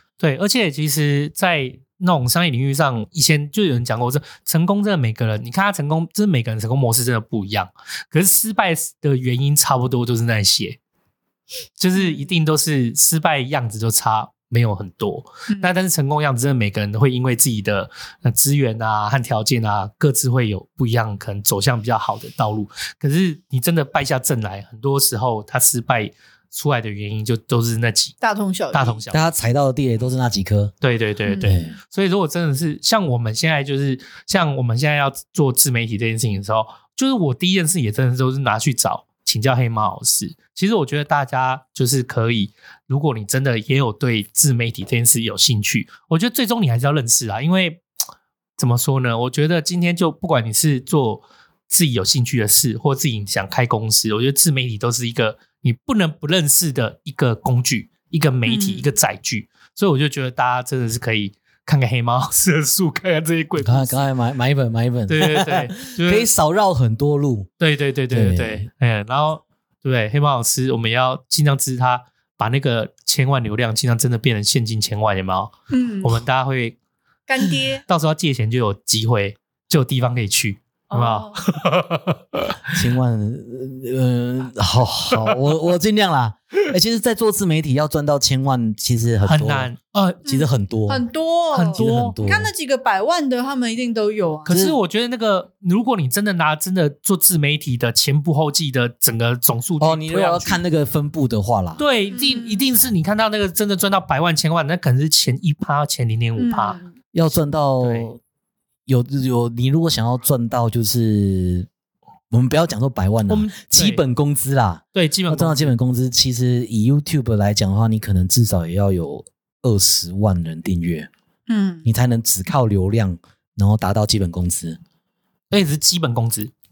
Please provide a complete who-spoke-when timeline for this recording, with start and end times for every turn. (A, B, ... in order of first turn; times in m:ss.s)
0:00.2-0:10.8 A
0:11.8-0:28.2 A
0:11.9-0:12.3 B
0:28.2-0:29.0 B
0:28.7-0:29.2 A
0:29.1-0:30.7 C
0:30.8-0:47.8 A
0:31.2-0:31.6 B
0:31.4-0:31.8 C
0:48.6-1:04.0 A
0:58.4-0:58.9 B
1:03.6-1:07.5 C
1:05.1-1:06.3 A
1:07.6-1:16.8 A
1:08.1-1:08.7 C
1:15.7-1:16.2 B
1:17.3-1:17.8 B
1:17.9-1:22.6 A
1:20.9-1:21.4 B
1:22.7-1:29.7 C
1:29.2-1:30.2 A
1:30.2-1:31.0 C
1:30.2-1:34.5 B
1:31.5-1:32.2 A
1:31.8-1:32.5 C
1:34.5-1:40.6 A
1:34.5-1:34.8 C
1:39.8-1:41.8 C
1:41.8-1:46.8 A
1:42.1-1:42.6 B
1:46.4-1:46.9 B
1:47.1-1:48.2 C
1:47.8-1:48.1 A
1:48.9-1:51.7 C
1:52.3-2:01.1 C
1:53.3-1:54.0 A
1:54.9-1:55.7 A
2:01.5-2:01.9 B
2:01.8-2:04.8 C
2:05.5-2:06.5 A